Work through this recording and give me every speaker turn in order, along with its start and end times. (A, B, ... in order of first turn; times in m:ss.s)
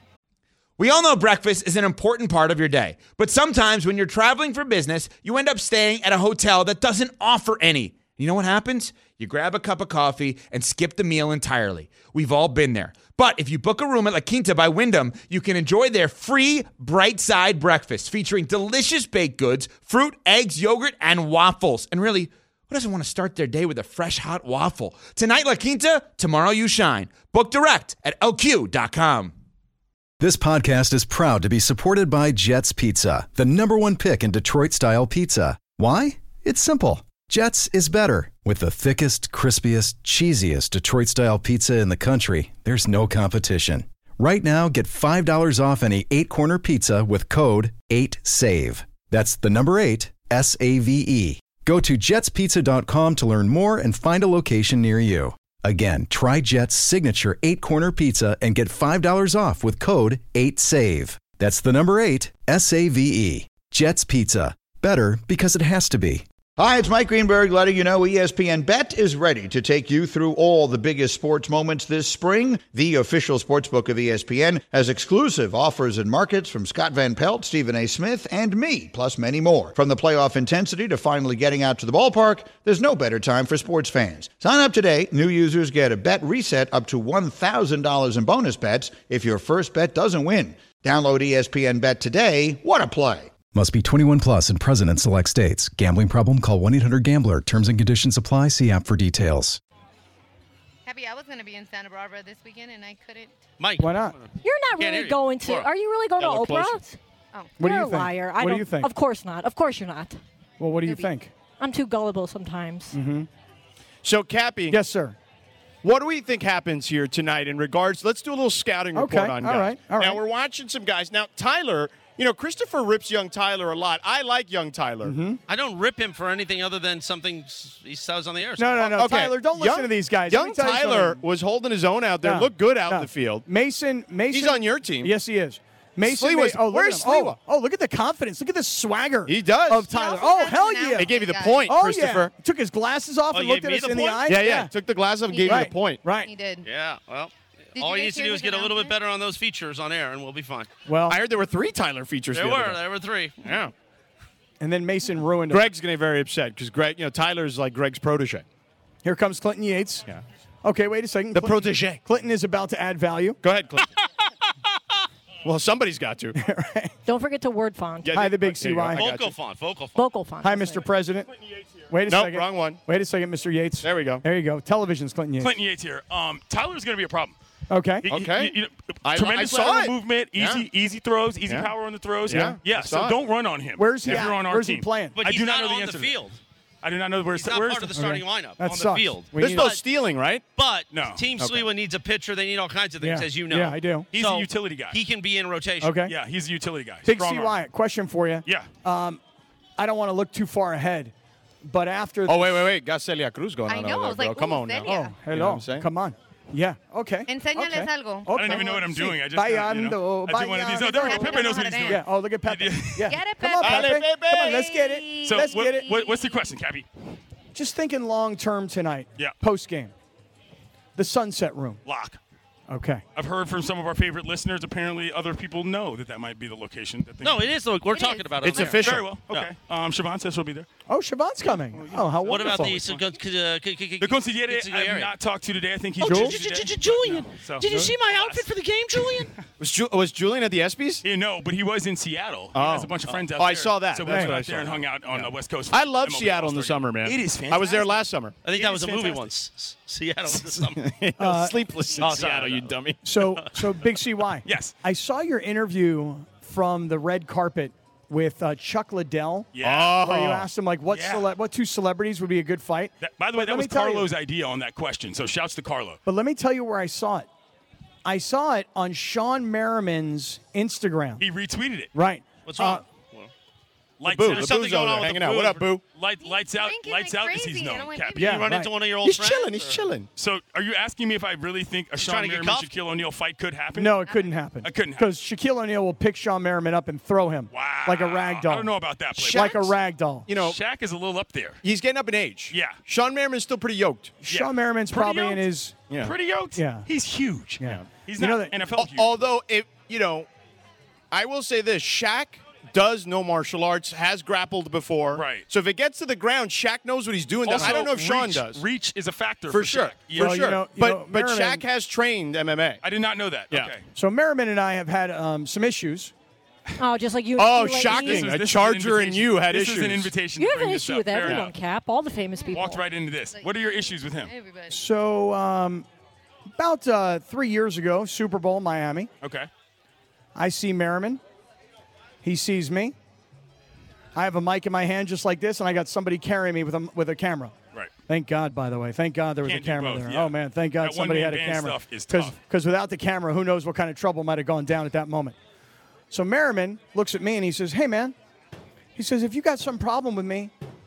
0:00.8-0:29.3 A
0:30.2-1:06.2 B
1:06.6-1:33.3 C
1:33.5-1:39.6 B
1:40.8-1:43.4 D
1:43.6-1:45.7 E
1:43.8-1:44.1 F
1:44.4-1:47.0 G
1:46.2-1:46.7 E
1:47.6-1:48.9 F
1:47.6-1:50.2 G
1:50.6-1:51.3 F
1:50.8-1:51.1 D
1:51.6-1:53.0 G
1:52.9-1:53.3 F
1:54.0-1:54.8 H
1:54.7-1:55.2 F
1:55.8-2:05.2 H
1:58.9-2:00.2 F
2:05.0-2:05.4 F
2:05.5-2:08.9 E
2:08.6-2:11.2 F
2:08.9-2:13.4 H
2:12.2-2:24.7 F
2:14.3-2:15.1 H
2:16.0-2:17.4 H
2:19.2-2:19.9 H
2:19.9-2:21.7 D
2:21.0-2:22.3 H
2:23.3-2:24.3 E
2:24.2-2:26.1 H
2:25.3-2:26.6 D
2:25.4-2:26.3 F
2:26.6-2:30.7 E
2:27.7-2:29.0 D
2:30.9-2:31.2 F
2:31.1-2:32.8 H
2:32.3-2:33.4 E
2:33.4-2:33.7 H
2:34.6-2:35.7 F
2:35.5-2:38.4 H
2:39.0-2:40.0 F
2:40.6-2:43.4 F
2:41.3-2:42.0 H
2:43.4-2:43.9 H
2:45.4-2:46.4 H
2:46.4-2:46.9 F
2:47.0-2:48.1 G
2:48.0-2:49.3 H
2:48.1-2:49.1 F
2:48.9-2:50.0 E
2:50.0-2:50.9 G
2:50.4-2:51.3 F
2:51.9-2:55.6 F
2:52.1-2:52.8 H
2:53.8-2:54.2 H
2:55.4-2:57.3 I
2:57.7-2:58.2 F
2:58.0-3:00.7 H
2:58.0-3:06.2 I
3:02.2-3:03.2 H
3:02.3-3:02.6 F
3:03.8-3:05.2 F
3:04.0-3:04.3 H
3:05.2-3:06.4 E
3:06.8-3:08.2 I
3:07.3-3:09.8 E
3:08.0-3:09.7 F
3:09.3-3:10.4 H
3:10.6-3:16.0 E
3:10.9-3:11.2 I
3:11.4-3:11.7 H
3:13.0-3:14.1 F
3:14.1-3:15.0 I
3:15.8-3:16.2 F
3:16.0-3:17.4 I
3:17.0-3:19.2 F
3:19.8-3:21.1 F
3:21.6-3:22.7 F
3:22.3-3:25.9 H
3:23.7-3:25.1 D
3:24.8-3:36.0 F
3:27.3-3:28.4 D
3:28.3-3:33.1 I
3:31.0-3:32.0 D
3:33.0-3:36.5 D
3:33.6-3:34.6 H
3:35.2-3:36.8 I
3:37.5-3:39.9 F
3:41.0-3:41.8 F
3:41.8-3:42.2 I
3:42.7-3:43.0 F
3:43.2-3:47.5 I
3:47.2-3:49.5 E
3:47.9-3:48.4 D
3:48.4-3:49.1 H
3:48.6-3:50.7 I
3:50.9-3:52.8 F
3:51.7-3:53.0 I
3:52.2-3:55.1 E
3:54.0-3:59.4 I
3:56.0-3:59.3 E
3:56.0-3:56.4 F
3:57.6-3:57.9 F
3:59.6-4:01.0 H
4:01.0-4:08.0 I
4:02.5-4:09.2 H
4:04.1-4:04.4 F
4:08.4-4:10.8 E
4:10.8-4:13.1 H
4:11.2-4:12.1 F
4:12.0-4:12.8 E
4:13.0-4:24.1 F
4:14.4-4:14.8 I
4:19.5-4:19.9 I
4:19.6-4:20.4 H
4:20.9-4:21.3 I
4:23.0-4:26.0 I
4:26.0-4:27.3 F
4:28.0-4:31.2 F
4:31.2-4:31.9 I
4:31.9-4:32.8 F
4:32.4-4:33.3 E
4:34.0-4:34.8 I
4:34.0-4:35.8 H
4:34.3-4:35.7 E
4:35.8-4:38.4 I
4:36.2-4:38.4 D
4:38.2-4:38.7 F
4:38.2-4:39.8 E
4:39.0-4:40.1 H
4:40.2-4:44.0 I
4:42.0-4:42.7 E
4:43.7-4:50.3 F
4:44.6-4:45.1 I
4:47.5-4:49.7 I
4:49.2-4:49.7 H
4:50.3-4:50.6 H
4:50.3-4:51.6 I
4:51.6-4:54.2 H
4:52.5-4:52.8 I
4:54.2-4:55.8 F
4:54.3-4:55.4 I
4:56.0-4:59.2 I
4:56.6-4:56.9 F
4:57.6-4:58.6 F
4:58.7-5:00.3 H
5:01.1-5:08.6 H
5:05.1-5:05.5 I
5:07.4-5:10.6 I
5:09.5-5:12.8 H
5:10.2-5:11.6 F
5:12.8-5:13.8 I
5:13.9-5:16.1 F
5:16.8-5:18.3 G
5:17.4-5:20.1 H
5:17.8-5:21.5 I
5:20.4-5:22.8 G
5:22.4-5:22.7 D
5:22.5-5:24.3 I
5:23.3-5:24.8 D
5:24.7-5:25.8 F
5:26.6-5:29.1 F
5:29.2-5:29.5 I
5:30.3-5:31.2 F
5:32.2-5:33.0 F
5:34.1-5:37.6 F
5:38.1-5:45.4 F
5:39.4-5:42.4 I
5:46.1-5:48.1 F
5:48.9-5:50.5 F